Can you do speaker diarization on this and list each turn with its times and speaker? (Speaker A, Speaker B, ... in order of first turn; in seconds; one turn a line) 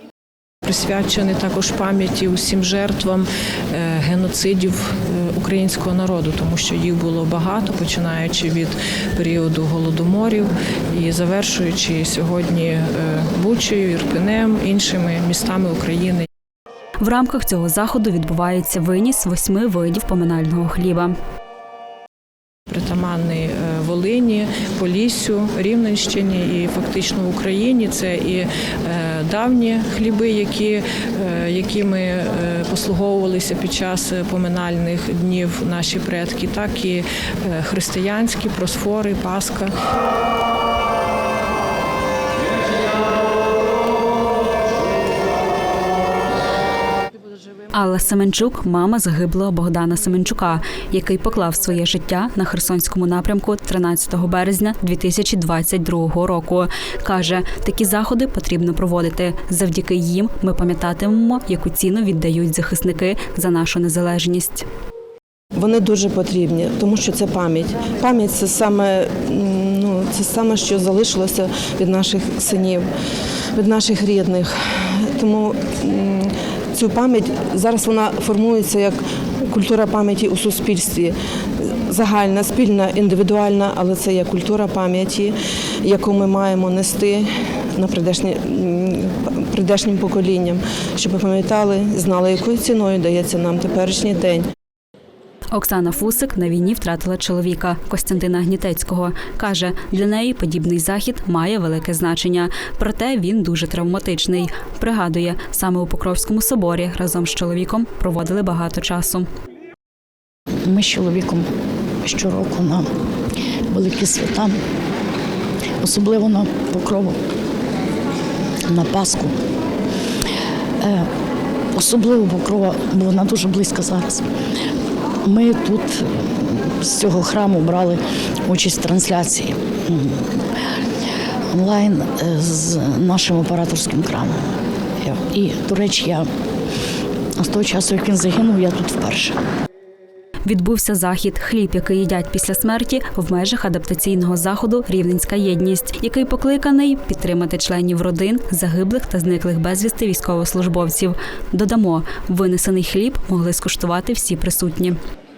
Speaker A: 0.6-16.2
Speaker B: 17.0-21.1
Speaker A: 22.7-39.7
Speaker B: 47.7-64.7
Speaker C: 65.5-72.9
Speaker C: 73.5-94.4
Speaker B: 95.5-109.3
Speaker D: 110.6-111.5
Speaker D: 112.0-112.9
Speaker D: 113.7-114.6
Speaker D: 115.8-117.2
Speaker D: 118.7-119.4
Speaker D: 120.8-121.1
Speaker D: 121.7-124.2
Speaker D: 125.2-130.4
Speaker D: 131.5-136.3
Speaker D: 137.4-139.4
Speaker B: 140.4-155.0